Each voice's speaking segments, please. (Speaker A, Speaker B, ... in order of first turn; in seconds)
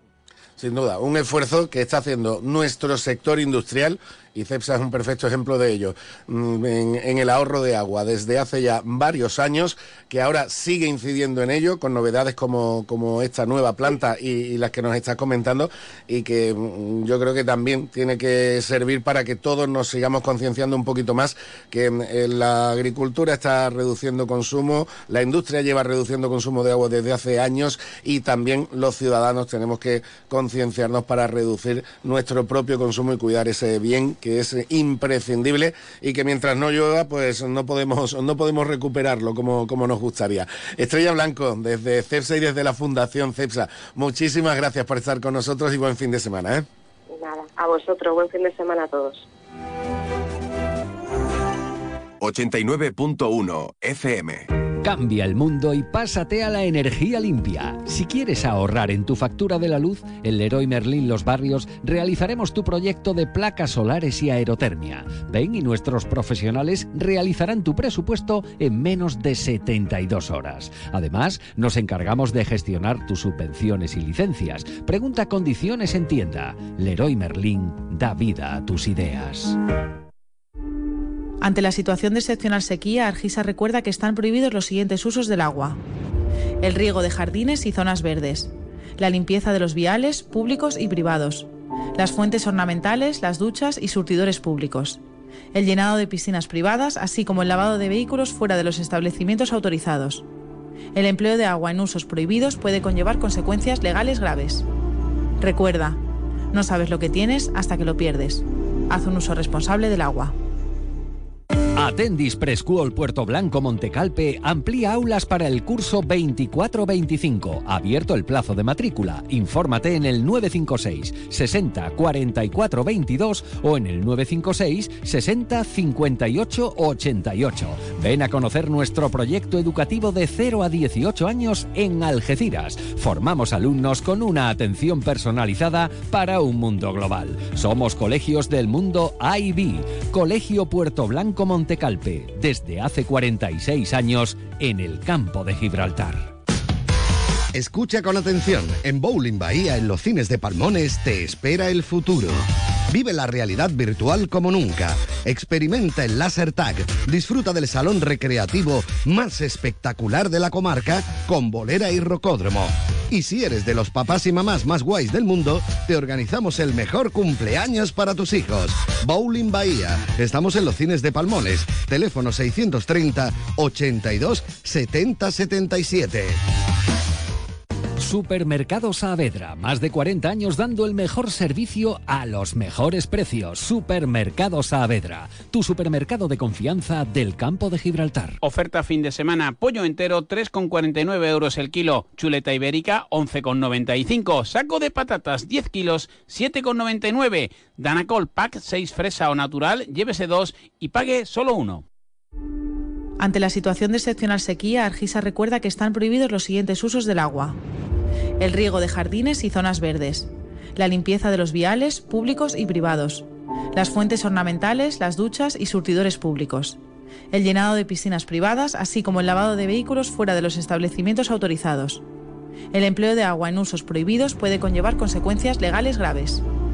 Speaker A: 0.6-46.6
Speaker B: 47.1-49.2
Speaker C: 52.2-54.5
Speaker D: 54.8-79.6, 111.8-146.3, 178.0-188.4
Speaker E: 81.4-85.8, 86.6-95.0, 95.5-100.2, 100.9-104.7, 105.4-106.0, 106.5-110.3, 203.2-207.6, 208.4-216.8, 217.3-222.0, 222.7-226.4
Speaker F: 147.5-176.4
Speaker G: 188.4-201.8